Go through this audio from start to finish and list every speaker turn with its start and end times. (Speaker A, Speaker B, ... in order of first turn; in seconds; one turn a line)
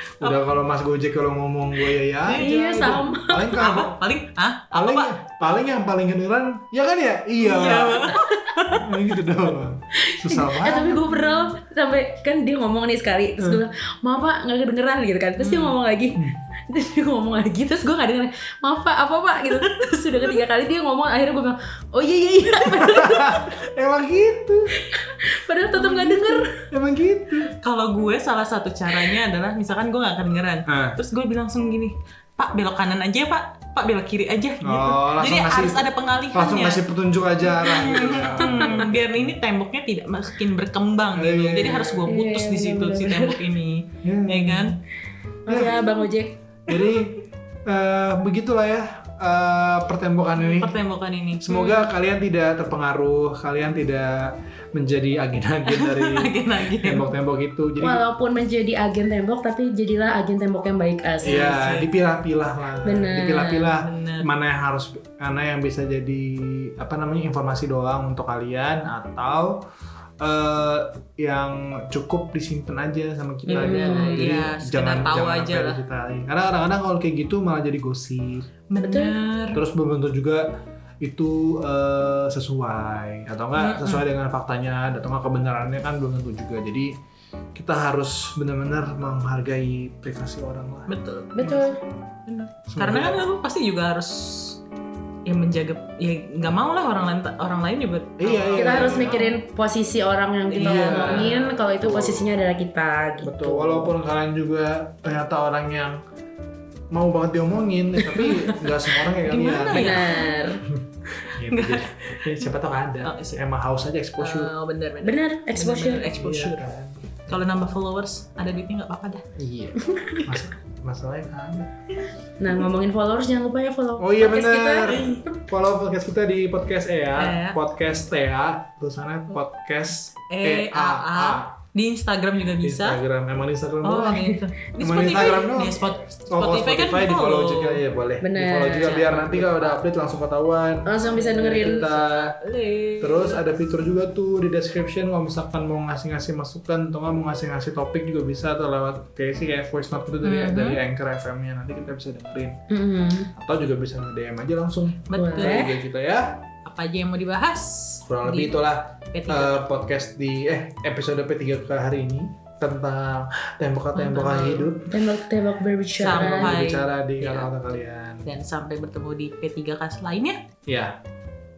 Speaker A: 0.2-4.0
Speaker B: 2.2-2.5
Speaker C: 2.3-3.5
Speaker B: 3.4-5.2
Speaker A: 4.7-8.1
Speaker B: 7.4-8.9
Speaker A: 8.7-11.0
Speaker C: 9.9-23.4
Speaker B: 11.0-11.5
Speaker B: 15.4-15.8
Speaker B: 19.6-20.0
Speaker A: 22.6-24.7
Speaker C: 24.7-26.5
Speaker A: 25.8-27.5
Speaker B: 27.6-36.8
Speaker A: 30.6-31.0
Speaker A: 34.6-39.4
Speaker B: 37.5-44.8
Speaker A: 41.1-42.1
Speaker C: 42.0-43.4
Speaker A: 44.0-44.8
Speaker C: 45.5-46.4
Speaker A: 45.5-45.9
Speaker A: 46.7-50.8
Speaker B: 50.4-51.9
Speaker A: 51.4-58.0
Speaker B: 55.7-57.1
Speaker C: 57.8-61.5
Speaker B: 61.2-61.9
Speaker A: 61.2-69.7
Speaker C: 62.8-63.7
Speaker B: 63.7-64.3
Speaker A: 70.2-78.5
Speaker C: 73.5-74.3
Speaker B: 73.5-75.8
Speaker B: 78.7-79.6
Speaker C: 78.8-79.2
Speaker A: 79.5-80.5
Speaker A: 81.0-86.9
Speaker B: 83.6-84.0
Speaker A: 87.5-91.6
Speaker B: 90.9-91.8
Speaker C: 91.3-91.8
Speaker B: 92.3-94.6
Speaker A: 92.7-93.2
Speaker B: 95.2-99.3
Speaker A: 98.2-99.3
Speaker C: 98.5-103.9
Speaker B: 100.5-101.5
Speaker A: 100.6-102.3
Speaker A: 103.2-106.0
Speaker A: 106.9-110.0
Speaker B: 108.0-110.3
Speaker C: 109.7-110.6
Speaker A: 110.7-114.5
Speaker B: 111.2-112.1
Speaker B: 113.0-113.4
Speaker B: 114.2-116.7
Speaker C: 115.0-116.1
Speaker A: 116.1-117.4
Speaker B: 117.3-119.2
Speaker A: 119.3-121.7
Speaker C: 119.8-120.2
Speaker C: 122.4-125.4
Speaker A: 124.0-131.5
Speaker B: 124.9-125.2
Speaker B: 127.2-127.6
Speaker B: 130.3-133.0
Speaker A: 132.6-142.4
Speaker B: 133.8-137.8
Speaker C: 138.2-138.9
Speaker B: 138.7-139.8
Speaker C: 140.8-141.9
Speaker B: 141.1-143.4
Speaker A: 143.0-152.6
Speaker B: 150.2-150.8
Speaker C: 152.7-153.3
Speaker A: 153.3-156.4
Speaker B: 155.1-155.7
Speaker C: 155.1-155.7
Speaker B: 156.6-158.6
Speaker A: 158.1-165.0
Speaker B: 159.1-159.7
Speaker B: 163.9-164.7
Speaker C: 164.9-166.5
Speaker B: 166.0-167.5
Speaker A: 166.0-168.3
Speaker B: 168.2-170.4
Speaker A: 170.7-171.0